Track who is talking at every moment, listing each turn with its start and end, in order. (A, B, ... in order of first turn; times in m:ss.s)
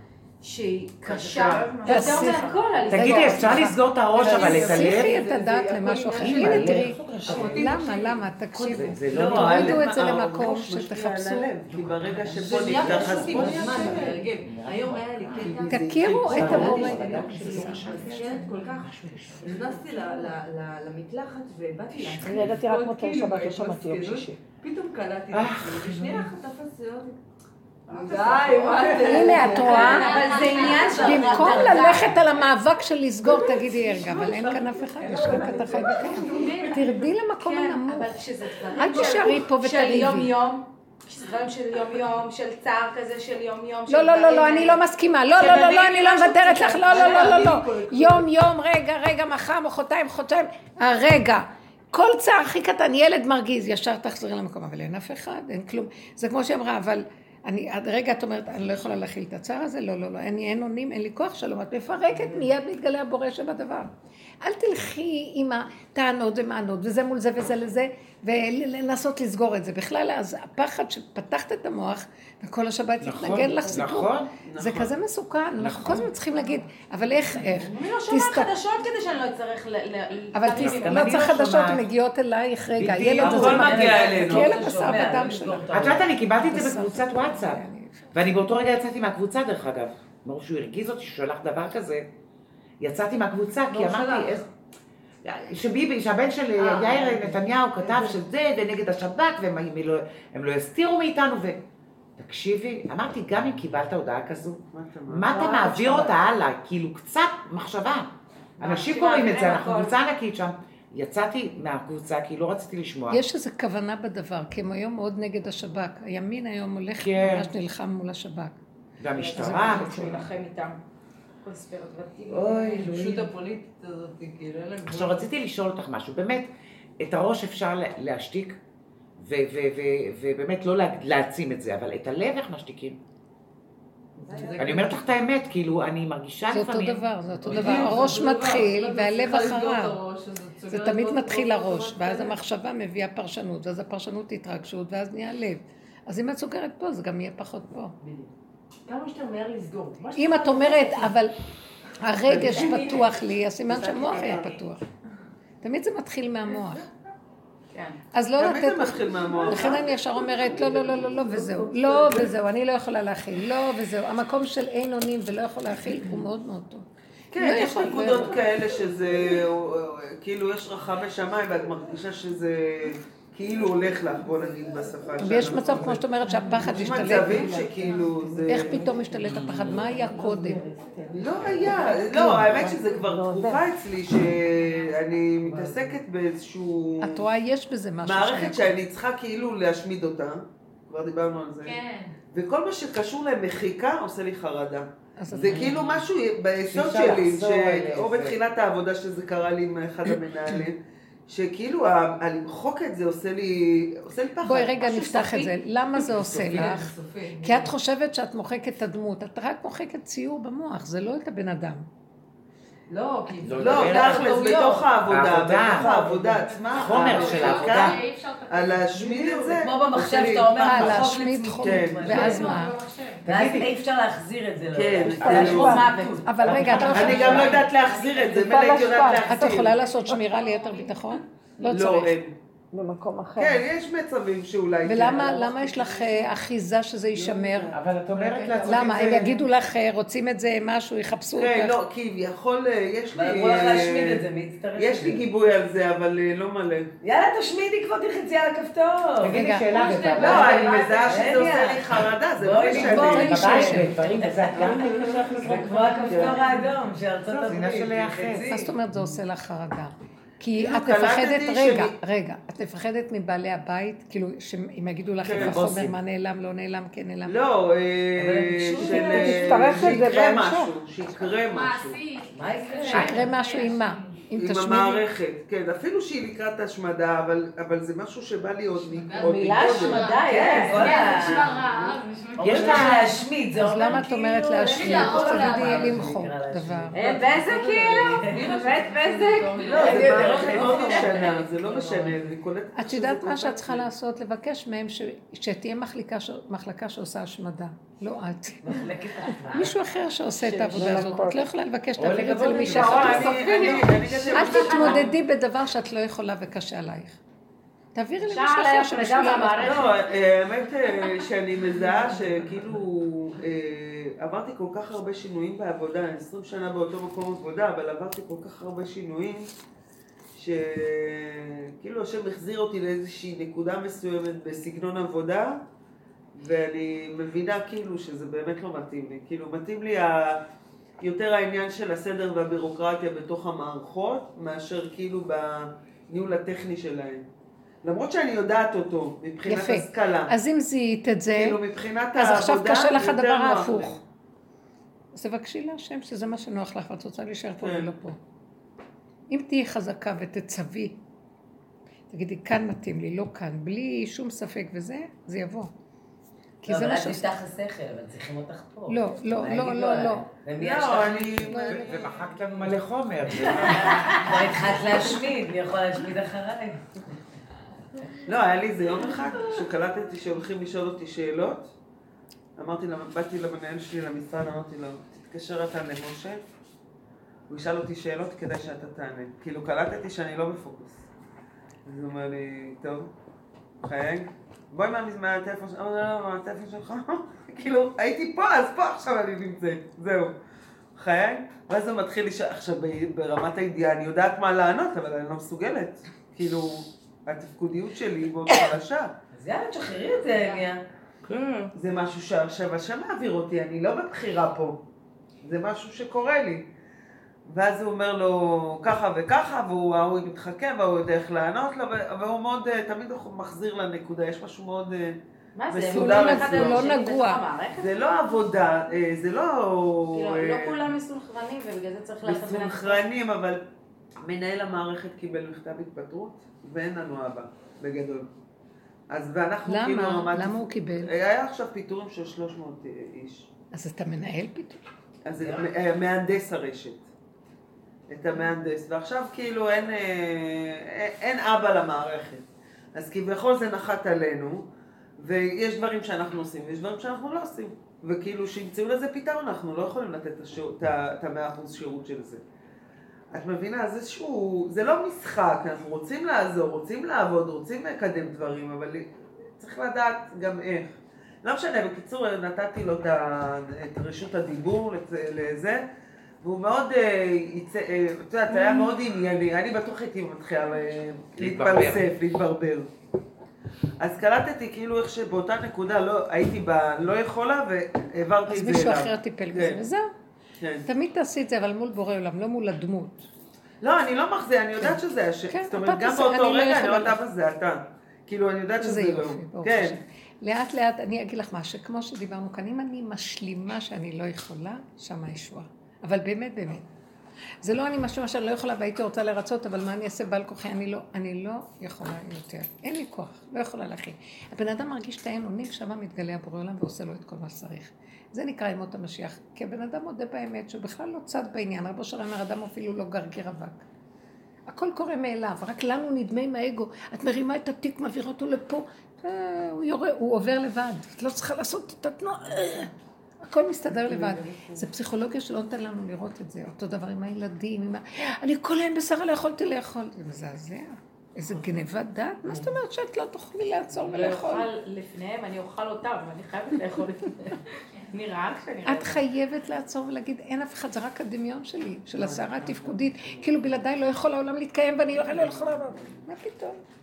0:00.4-0:03.6 A
0:01.0-0:01.7 B
0:01.1-0:02.6 C
0:01.8-0:11.5 D
0:02.9-0:05.2 B
0:04.1-0:08.1 E
0:06.1-0:07.8 B
0:07.3-0:07.7 C
0:08.5-0:10.0 B
0:09.1-0:13.9 C
0:11.7-0:15.6 B
0:12.3-0:27.2 E
0:12.8-0:14.8 A
0:15.4-0:17.2 C
0:15.7-0:17.9 D
0:16.1-0:19.7 B
0:16.5-0:18.6 A
0:22.1-0:24.4 F
0:25.3-0:26.3 B
0:27.9-0:32.1 E
0:27.9-0:32.2 A
0:28.3-0:29.6 F
0:29.1-0:30.2 D
0:29.9-0:31.0 G
0:31.0-0:40.3 D
0:33.2-0:37.1 E
0:35.1-0:36.2 F
0:36.1-0:44.8 A
0:38.9-0:39.3 E
0:43.9-1:03.9 D
0:45.3-0:47.8 A
0:46.8-0:48.2 E
1:04.4-1:18.5 D
1:13.0-1:14.3 B
1:14.4-1:14.9 C
1:15.6-1:16.1 B
1:17.6-1:21.4 A
1:20.3-1:25.8 D
1:20.5-1:21.8 B
1:22.7-1:24.0 B
1:23.2-1:24.7 C
1:23.3-1:26.1 H
1:25.7-1:32.1 B
1:26.4-1:28.2 D
1:32.8-1:34.4 B
1:33.7-1:34.4 A
1:33.8-1:34.1 E
1:35.2-1:41.6 B
1:36.7-1:37.5 E
1:42.2-1:48.1 B
1:44.7-1:45.6 C
1:45.6-1:46.1 H
1:48.6-1:49.9 A
1:48.6-1:53.2 B
1:48.7-1:49.6 E
1:53.1-1:58.6 D
1:57.0-1:57.5 B
1:59.0-2:00.3 B
1:59.1-2:00.8 A
1:59.2-2:00.3 D
2:01.4-2:03.0 A
2:02.3-2:03.3 B
2:02.7-2:05.3 E
2:04.9-2:06.5 B
2:07.0-2:08.6 B
2:09.2-2:13.0 B
2:14.2-2:15.0 E
2:14.6-2:18.2 B
2:16.5-2:20.0 D
2:17.4-2:22.4 E
2:20.7-2:28.0 D
2:28.0-2:28.3 E
2:28.9-2:31.1 E
2:30.2-2:31.3 D
2:32.0-2:34.8 D
2:32.3-2:33.0 A
2:32.4-2:32.9 E
2:35.6-2:36.8 D
2:37.7-2:38.0 A
2:38.1-2:48.4 D
2:38.4-2:39.9 C
2:40.5-2:42.0 F
2:47.3-2:56.0 C
2:55.2-2:57.8 D
2:56.4-3:03.6 F
2:56.6-2:58.9 C
2:58.4-3:00.6 D
2:59.2-2:59.8 B
3:01.2-3:07.2 C
3:01.3-3:01.7 E
3:05.4-3:06.0 E
3:07.0-3:08.8 D
3:08.0-3:11.8 C
3:11.6-3:12.1 G
3:12.3-3:24.9 C
3:15.2-3:15.8 D
3:15.4-3:15.9 B
3:16.7-3:18.4 B
3:24.4-3:31.8 D
3:24.8-3:25.5 A
3:26.0-3:27.7 E
3:32.9-3:34.9 E
3:33.4-3:34.3 B
3:33.6-3:42.4 C
3:34.3-3:34.7 A
3:35.1-3:35.9 B
3:35.8-3:37.1 E
3:36.7-3:39.1 G
3:36.7-3:38.0 B
3:39.0-3:39.5 E
3:39.5-3:42.6 H
3:40.6-3:42.8 D
3:42.1-3:42.6 E
3:42.2-3:43.2 G
3:43.2-3:43.7 B
3:43.2-3:47.5 H
3:44.7-3:45.8 C
3:45.2-3:45.7 B
3:45.2-3:49.5 F
3:45.6-3:46.2 A
3:46.2-3:47.7 D
3:46.4-3:49.7 C
3:47.6-3:48.3 G
3:48.5-3:49.1 A
3:49.2-3:52.2 D
3:49.6-3:51.0 G
3:50.0-3:50.3 F
3:51.7-3:52.3 C
3:52.7-3:53.7 F
3:53.4-3:56.3 C
3:54.8-3:57.8 D
3:57.1-3:59.4 C
3:57.7-3:59.3 B
3:58.4-4:01.7 D
4:01.3-4:04.2 C
4:03.1-4:05.2 H
4:04.8-4:06.9 C
4:07.0-4:09.4 H
4:09.2-4:10.7 B
4:09.3-4:09.8 D
4:09.6-4:11.1 G
4:10.1-4:13.5 C
4:10.2-4:11.8 H
4:12.4-4:18.7 H
4:12.6-4:16.3 B
4:12.7-4:13.9 D
4:14.6-4:15.4 C
4:15.7-4:16.2 G
4:16.1-4:16.4 C
4:17.3-4:18.5 B
4:18.5-4:27.4 D
4:20.5-4:21.9 C
4:25.2-4:25.6 C
4:25.3-4:26.0 B
4:27.2-4:32.0 C
4:28.2-4:30.0 H
4:28.8-4:30.7 F
4:31.4-4:34.3 G
4:32.3-4:33.3 H
4:32.8-4:35.0 D
4:34.4-4:41.6 C
4:39.1-4:39.3 E
4:39.1-4:41.1 A
4:39.2-4:43.3 G
4:39.8-4:41.6 H
4:42.4-4:48.6 H
4:42.4-4:43.1 B
4:43.5-4:46.9 D
4:44.6-4:46.0 G
4:46.9-4:51.0 A
4:47.2-4:50.8 E
4:49.6-4:53.9 C
4:49.7-4:52.2 H
4:52.8-4:58.9 D
4:58.6-4:59.7 H
4:59.5-5:07.2 D
5:00.4-5:01.1 A
5:00.7-5:01.5 F
5:02.0-5:03.4 B
5:02.6-5:05.1 C
5:02.6-5:03.1 F
5:03.4-5:05.0 A
5:07.9-5:10.0 D
5:08.2-5:10.0 A
5:09.5-5:19.5 C
5:20.3-5:25.6 C
5:26.3-5:30.4 C
5:31.0-5:37.2 C
5:37.8-5:40.3 C
5:39.4-5:41.6 D
5:41.3-5:44.0 C
5:42.2-5:44.0 D
5:45.1-5:48.2 D
5:47.6-5:47.9 C
5:49.3-5:51.0 D
5:52.1-5:55.7 D
5:56.6-5:57.3 D
5:56.6-6:01.6 H
5:58.9-6:00.2 D
6:00.6-6:02.1 C
6:01.5-6:02.3 D
6:01.7-6:04.4 B
6:03.7-6:06.9 H
6:08.2-6:11.7 C
6:12.6-6:16.4 C
6:17.5-6:21.0 C
6:21.8-6:23.1 C
6:23.8-6:30.3 C
6:31.0-6:39.1 C
6:39.3-6:40.8 H
6:40.3-6:40.6 A
6:41.2-6:41.7 B
6:41.7-6:44.8 C
6:45.4-6:46.6 C
6:47.4-6:56.9 C
6:55.5-6:57.9 A
6:55.9-6:57.4 D
6:57.8-7:00.9 C
7:00.1-7:03.0 A
7:02.2-7:03.6 C
7:04.2-7:08.3 C
7:09.1-7:13.5 C
7:09.6-7:11.1 D
7:13.7-7:14.8 D
7:15.2-7:17.0 C
7:15.4-7:15.7 H
7:18.1-7:24.6 C
7:25.2-7:32.4 C
7:33.3-7:45.8 C
7:46.4-7:52.9 C
7:51.4-7:52.1 B
7:54.0-7:59.8 C
7:58.5-8:00.1 D
8:00.6-8:00.9 C
8:00.8-8:03.3 D
8:03.8-8:10.0 C
8:04.8-8:07.2 D
8:08.8-8:16.9 D
8:17.6-8:33.8 D
8:34.7-8:42.9 D
8:43.4-8:54.7 D
8:54.0-8:59.2 A
8:58.8-9:06.8 D
9:02.2-9:02.7 C
9:05.2-9:06.1 C